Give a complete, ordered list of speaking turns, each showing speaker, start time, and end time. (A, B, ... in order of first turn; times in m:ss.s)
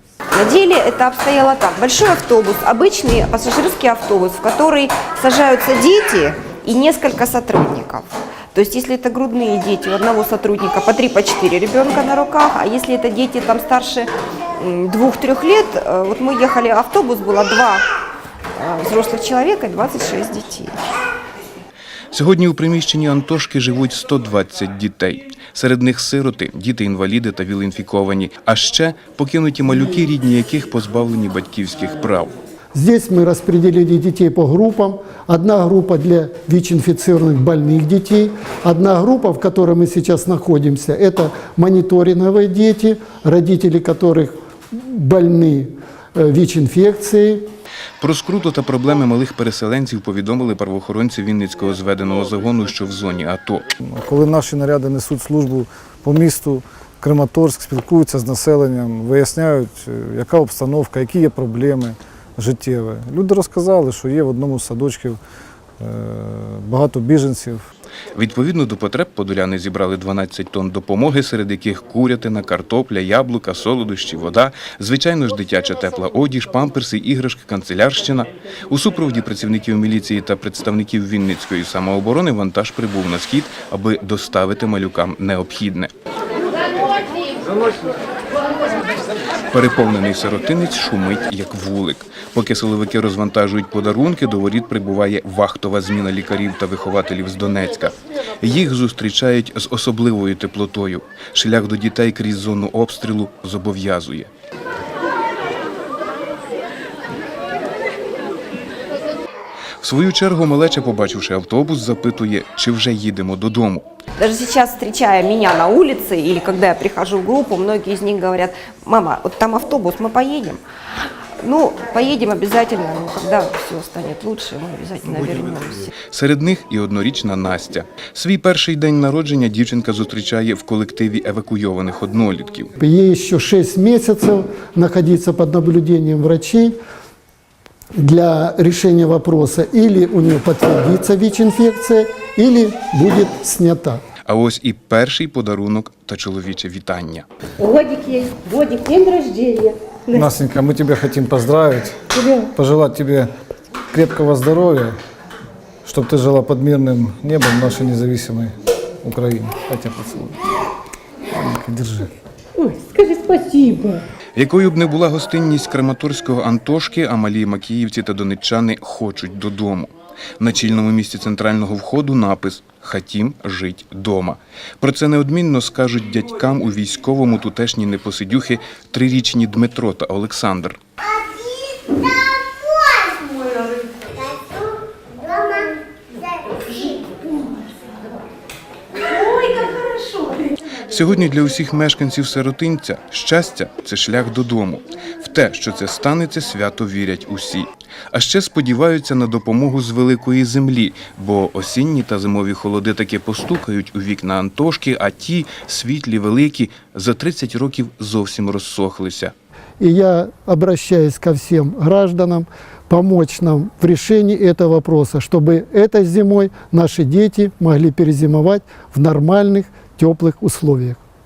0:00.3-0:17.8 A
0:18.6-0:20.8 A
0:22.1-0:32.3 B
0:32.7-0:47.5 C
0:48.0-0:53.6 B
0:53.9-1:05.2 D
1:05.8-1:07.6 D
1:08.1-1:25.9 B
1:29.5-1:44.3 B
1:49.8-1:53.9 B
1:54.2-2:00.6 A
2:01.4-2:06.0 A
2:06.0-2:12.7 B
2:12.8-2:16.8 C
2:18.0-2:24.0 C
2:24.2-2:27.3 B
2:27.6-2:30.3 E
2:30.1-2:32.0 D
2:32.1-2:32.5 E
2:32.5-2:33.3 D
2:33.9-2:34.9 D
2:35.8-2:38.5 D
2:39.0-2:40.4 D
2:41.3-2:42.1 D
2:42.6-2:44.0 E
2:44.4-3:00.8 B
3:06.8-3:07.5 E
3:09.0-3:10.5 E
3:10.8-3:29.3 B
3:29.8-3:41.0 C